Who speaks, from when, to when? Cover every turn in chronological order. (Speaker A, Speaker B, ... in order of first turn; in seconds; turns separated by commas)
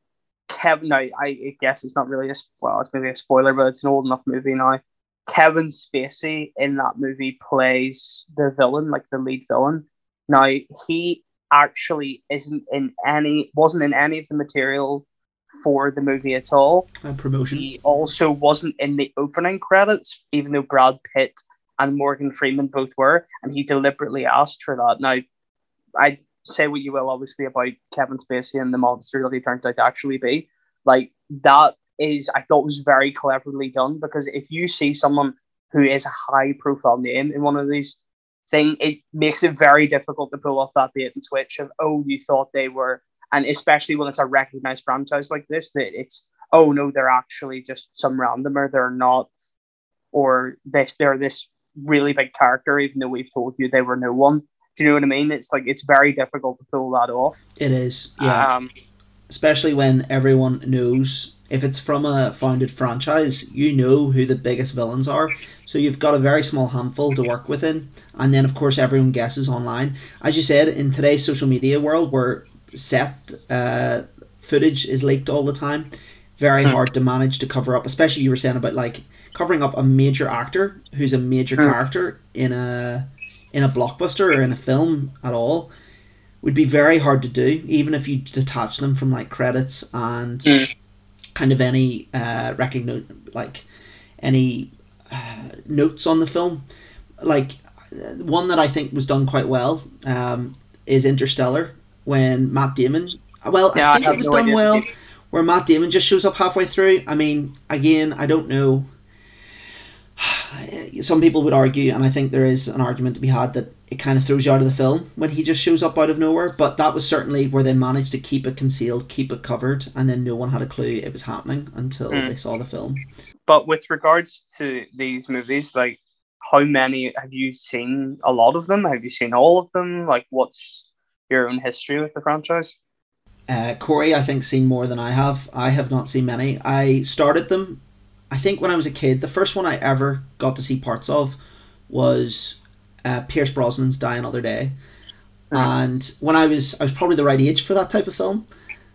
Speaker A: 0.5-15.1, Speaker A: 15.6-16.9, Speaker B: 17.0-17.7, Speaker A: 17.5-25.2, Speaker A: 26.0-38.0, Speaker A: 38.5-49.3, Speaker A: 50.1-57.4, Speaker B: 57.6-58.5, Speaker A: 58.2-58.7, Speaker B: 59.3-85.7, Speaker B: 86.4-90.6, Speaker B: 91.3-93.7, Speaker B: 94.2-96.6, Speaker B: 97.2-108.9, Speaker A: 103.7-104.9, Speaker B: 110.2-123.0, Speaker A: 123.5-132.7, Speaker B: 133.5-144.8, Speaker B: 145.5-148.5